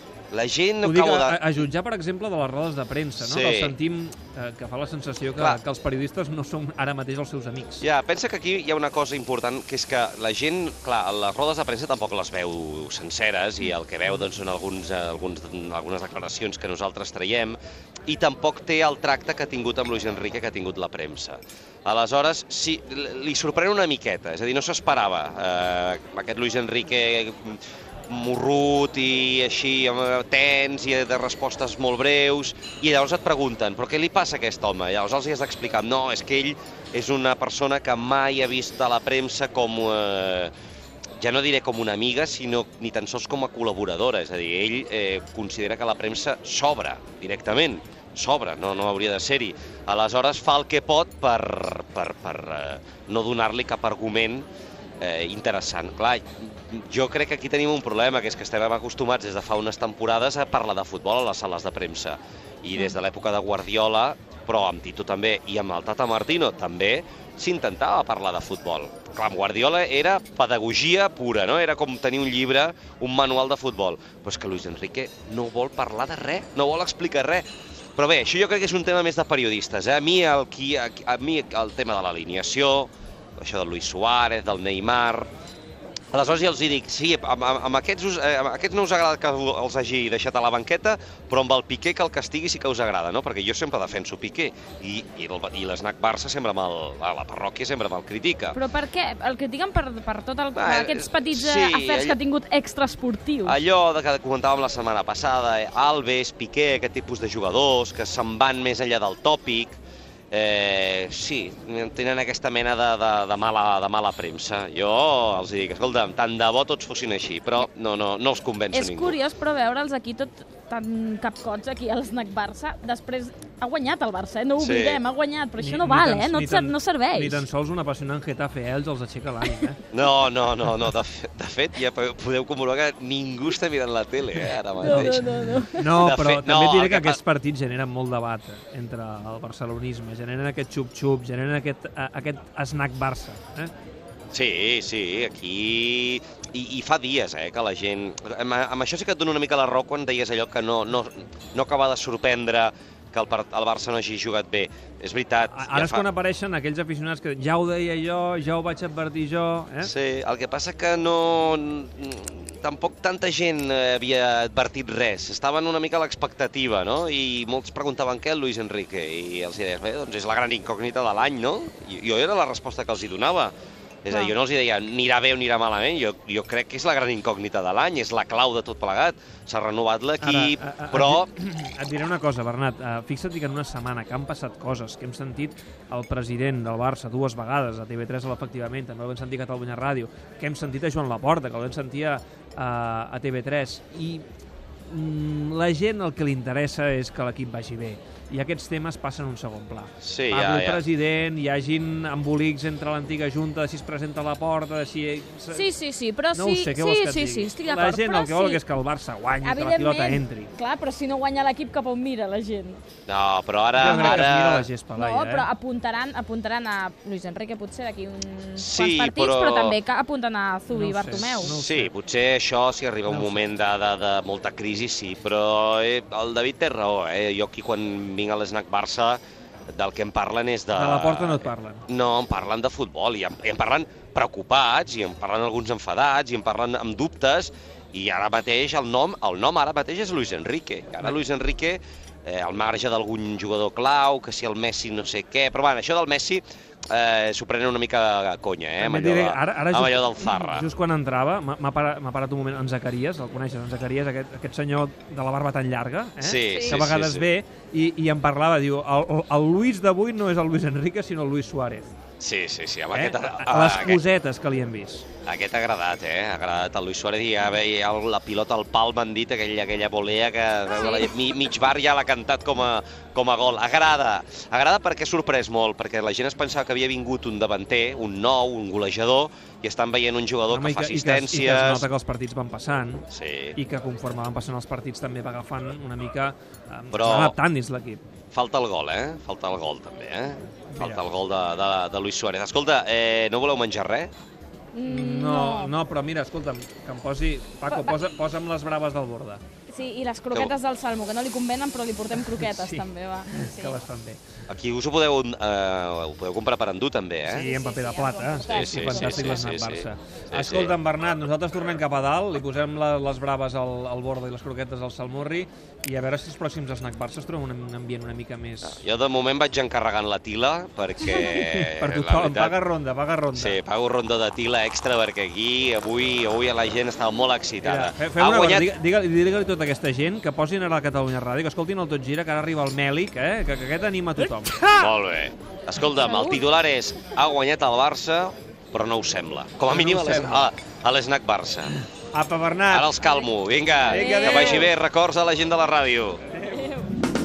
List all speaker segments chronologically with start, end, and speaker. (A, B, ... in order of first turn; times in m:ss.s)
0:00.3-0:01.4 A
0:00.8-0:07.8 B
0:03.2-0:03.8 A
0:05.4-0:05.6 A
0:07.8-0:40.5 A
0:41.2-0:54.5 A
0:55.0-1:25.3 A
1:26.1-1:38.6 A
1:38.5-1:43.6 C
1:40.5-1:42.2 A
1:43.4-1:49.8 A
1:50.3-1:59.2 A
1:58.7-2:07.4 C
2:04.6-2:05.0 A
2:05.6-2:09.8 B
2:09.9-2:17.2 A
2:14.8-2:16.0 C
2:14.8-2:15.2 B
2:15.7-2:23.7 B
2:24.3-2:36.0 A
2:35.5-2:39.9 B
2:39.8-2:53.5 A
2:54.0-3:01.3 A
3:00.2-3:14.3 B
3:14.9-3:25.7 B
3:20.0-3:20.8 A
3:25.5-3:28.6 C
3:26.3-3:30.5 B
3:29.4-3:32.8 C
3:33.1-3:34.7 A
3:33.8-3:35.5 B
3:33.8-3:34.3 C
3:34.9-3:41.6 C
3:38.6-3:39.8 A
3:40.7-3:41.9 B
3:41.2-3:49.2 A
3:43.1-3:43.5 B
3:49.7-4:10.7 A
3:50.7-3:51.8 B
4:08.8-4:21.9 B
4:16.2-4:17.3 A
4:16.5-4:16.8 C
4:22.2-4:24.0 A
4:22.9-4:25.1 B
4:25.3-4:41.9 A
4:30.7-4:31.2 C
4:40.5-4:43.0 B
4:43.1-4:43.6 A
4:43.6-4:48.0 B
4:46.9-4:47.4 A
4:48.3-4:54.1 A
4:50.7-4:51.0 B
4:54.7-4:55.7 C
4:54.8-4:59.4 B
4:57.7-4:58.1 C
4:59.7-5:03.8 C
5:02.2-5:04.2 B
5:04.5-5:07.5 A
5:07.3-5:18.8 B
5:07.4-5:09.4 C
5:08.5-5:10.8 A
5:18.6-5:22.6 A
5:21.1-5:23.6 B
5:23.3-5:28.7 A
5:27.6-5:34.9 B
5:34.7-5:41.7 A
5:35.9-5:36.4 C
5:39.7-5:40.5 B
5:42.1-5:43.0 B
5:42.7-5:46.2 A
5:43.9-5:44.7 B
5:43.9-5:44.7 C
5:46.4-5:46.9 C